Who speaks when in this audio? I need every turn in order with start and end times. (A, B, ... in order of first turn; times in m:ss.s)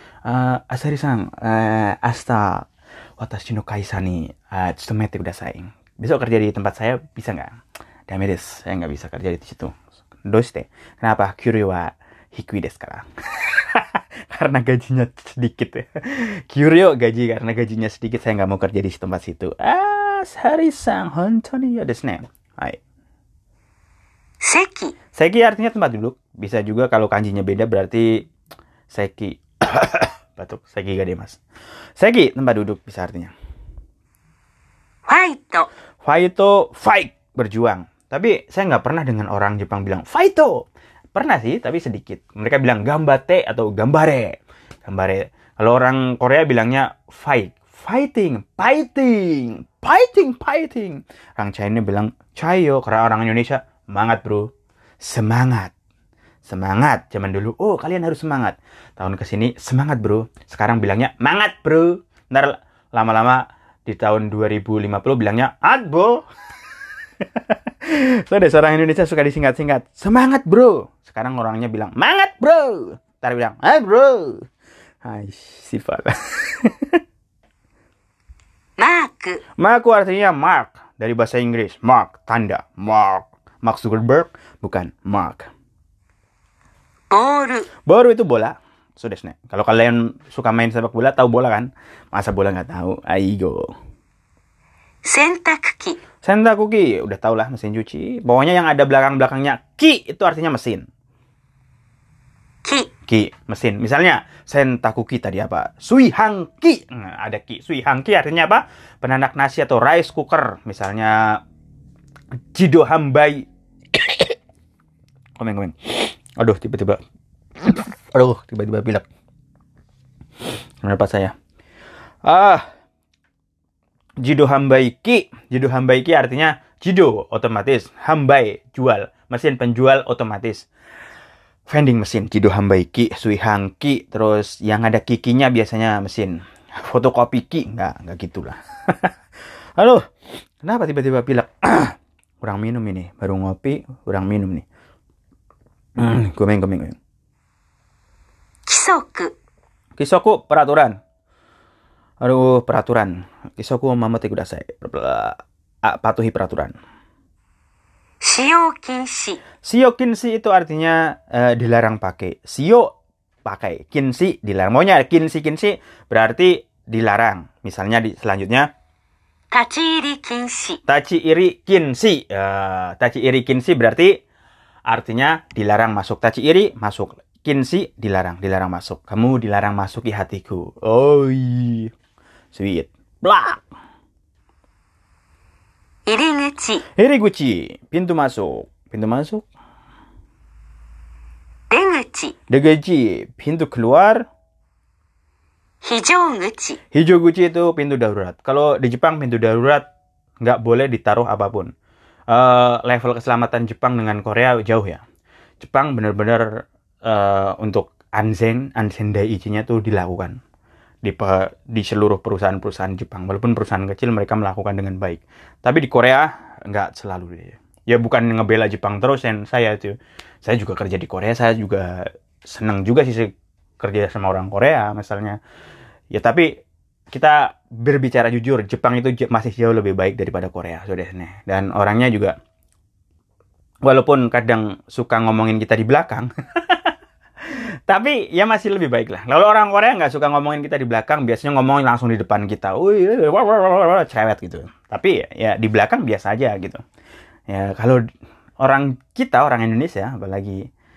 0:00.2-0:02.7 A
0:03.2-0:07.6 A
0:08.1-0:22.8 A
0:24.4-0:24.9 B
0:25.1-0:28.2 A
0:28.9-0:31.4 A
0:32.0-0:33.3 A
0:35.1-0:35.7 B
0:36.0-0:40.6 A
0:41.1-0:54.5 A
0:55.0-0:55.7 A
0:56.4-1:06.2 A
1:07.2-1:14.4 A
1:15.0-1:16.9 A
1:18.8-1:19.4 B
1:19.6-1:25.5 A
1:27.1-1:27.7 B
1:27.9-1:33.6 A
1:35.0-1:36.0 B
1:36.2-1:40.8 A
1:42.6-1:42.9 B
1:43.1-1:51.4 A
1:52.5-1:54.3 A
1:55.4-1:57.0 A
1:57.6-1:59.0 A
2:00.8-2:01.3 A
2:02.2-2:02.6 A
2:04.2-2:10.7 A
2:11.7-2:19.1 A
2:19.8-2:20.0 A
2:20.6-2:24.6 A
2:26.0-2:27.0 A
2:28.6-2:29.3 B
2:30.0-2:31.0 A
2:32.2-2:36.7 A
2:38.2-2:39.4 B
2:39.6-2:42.9 A
2:43.4-2:48.7 A
2:49.5-2:50.8 B
2:50.8-2:54.2 A
2:54.9-3:01.9 A
3:02.5-3:03.6 A
3:06.1-3:06.8 B
3:07.0-3:09.4 A
3:11.7-3:12.3 B
3:12.5-3:14.2 A
3:15.8-3:16.8 B
3:16.9-3:19.8 A
3:20.4-3:21.7 A
3:22.3-3:25.0 A
3:25.6-3:26.5 A
3:27.0-3:30.4 A
3:31.0-3:45.4 A
3:46.1-3:46.5 A
3:47.1-3:52.3 A
3:53.8-3:56.9 A
3:57.9-4:06.8 A
4:07.5-4:08.0 A
4:08.6-4:10.6 A